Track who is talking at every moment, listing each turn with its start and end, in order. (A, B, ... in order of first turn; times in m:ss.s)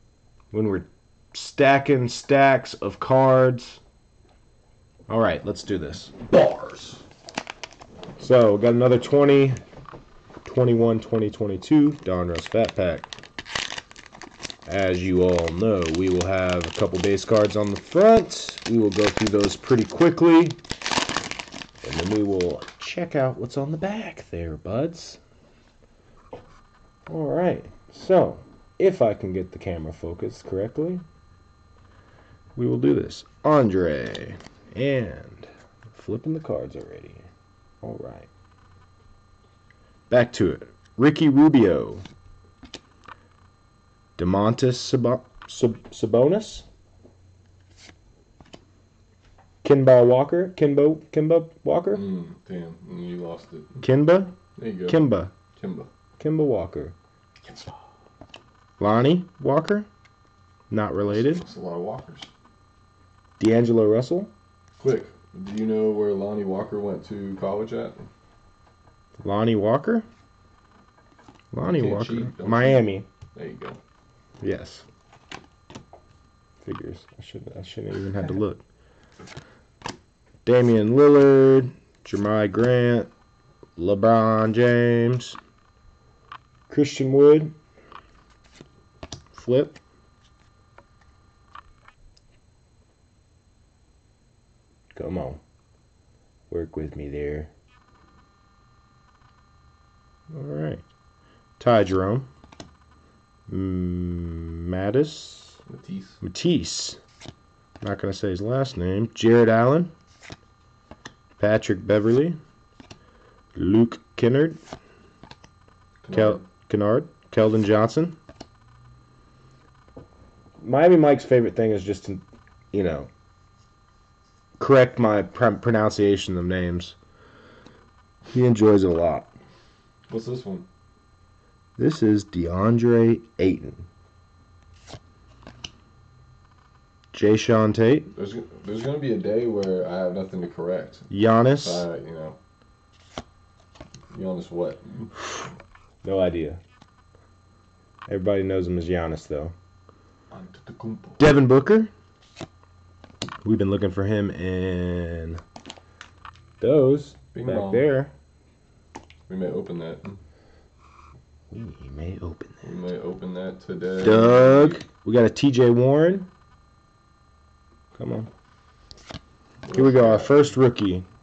0:00.5-0:03.8 A
0:05.1-0:06.2 A
0:06.3-0:07.0 B
0:08.2-0:09.6 A
0:10.4-0:13.1 A
0:14.7-0:20.6 A
0:21.8-0:25.2 A
0:27.1-0:31.0 A
0:32.6-0:37.3 A
0:37.8-0:38.3 A
0:40.1-0:42.0 A
0:44.2-0:46.6 A
0:49.6-0:52.0 A
0:51.9-0:53.8 B
0:53.8-0:54.4 A
0:54.6-0:55.0 B
0:54.9-0:55.3 A
0:55.6-0:55.9 B
0:56.2-0:57.0 A
0:57.4-0:57.8 B
0:58.8-0:59.9 A
1:00.7-1:01.4 A
1:01.1-1:02.3 B
1:03.4-1:04.3 A
1:04.8-1:08.1 B
1:09.2-1:10.1 A
1:11.5-1:13.1 A
1:11.6-1:13.8 B
1:14.4-1:14.8 A
1:16.6-1:18.6 A
1:20.4-1:23.1 A
1:23.8-1:25.4 A
1:26.7-1:27.5 A
1:29.3-1:29.8 A
1:35.0-1:35.4 A
1:36.5-1:37.5 A
1:40.3-1:40.8 A
1:41.6-1:42.3 A
1:43.5-1:45.6 A
1:45.7-1:46.2 B
1:46.2-1:47.0 A
1:47.8-1:49.9 A
1:51.4-1:52.4 A
1:53.6-1:54.6 A
1:56.0-1:56.4 B
1:56.1-1:58.2 A
2:00.6-2:03.1 A
2:04.6-2:07.0 A
2:08.3-2:09.3 A
2:10.1-2:10.7 B
2:11.8-2:13.8 A
2:17.1-2:18.1 A
2:18.1-2:22.4 B
2:21.1-2:21.8 A
2:24.1-2:25.1 B
2:26.0-2:26.6 A
2:28.1-2:29.5 A
2:30.3-2:31.3 B
2:31.2-2:31.9 A
2:33.4-2:35.4 A
2:36.6-2:38.1 A
2:37.3-2:37.9 B
2:39.3-2:40.2 B
2:41.5-2:42.6 A
2:42.6-2:44.8 B
2:44.0-2:46.3 A
2:48.0-2:48.3 A
2:49.6-2:50.5 B
2:49.7-2:51.1 A